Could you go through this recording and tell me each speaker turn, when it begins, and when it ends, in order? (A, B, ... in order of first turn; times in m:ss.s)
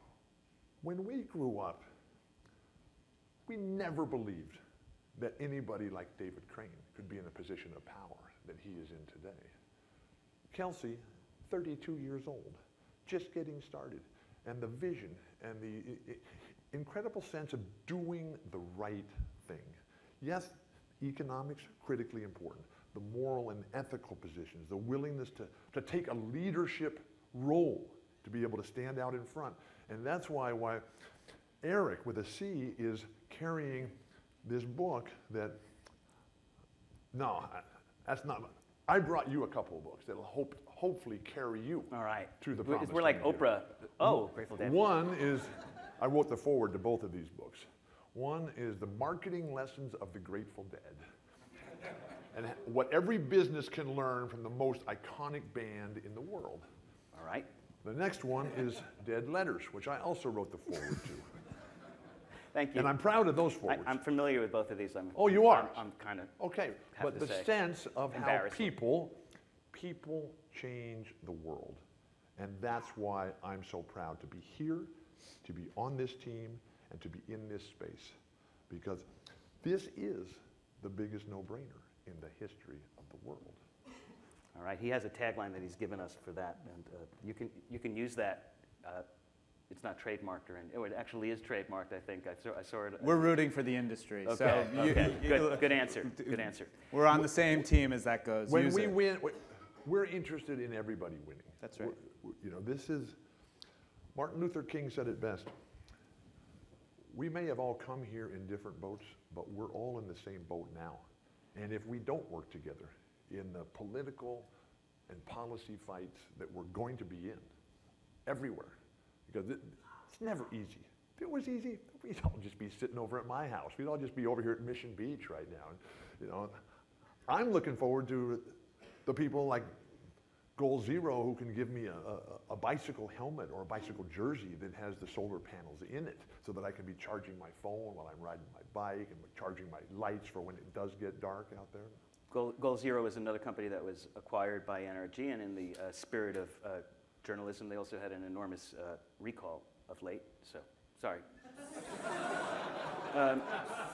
0:00.8-0:01.8 A
0:03.5-0:04.6 A
0:05.2-0:09.5 A
0:10.5-0:30.8 A
0:31.6-0:35.6 A
0:37.1-0:43.5 A
0:41.9-0:44.8 B
0:44.0-0:51.0 A
0:52.3-0:56.6 A
0:57.1-0:57.5 B
0:57.8-1:01.3 A
1:02.5-1:02.9 B
1:02.7-1:04.0 A
1:03.6-1:06.3 B
1:05.1-1:05.8 A
1:06.4-1:09.2 A
1:06.9-1:07.5 B
1:08.1-1:08.7 B
1:09.7-1:11.8 A
1:12.4-1:14.9 A
1:15.4-1:18.1 A
1:18.7-1:19.0 A
1:19.6-1:23.6 A
1:24.5-1:29.0 B
1:29.7-1:33.4 B
1:33.0-1:39.0 C
1:34.2-1:36.8 B
1:38.5-1:43.2 A
1:41.6-1:41.9 C
1:44.1-1:45.5 A
1:47.1-1:54.5 A
1:55.1-1:57.4 A
1:58.2-2:06.5 A
2:07.3-2:09.7 A
2:10.6-2:22.0 A
2:22.3-2:31.2 B
2:33.1-2:33.5 B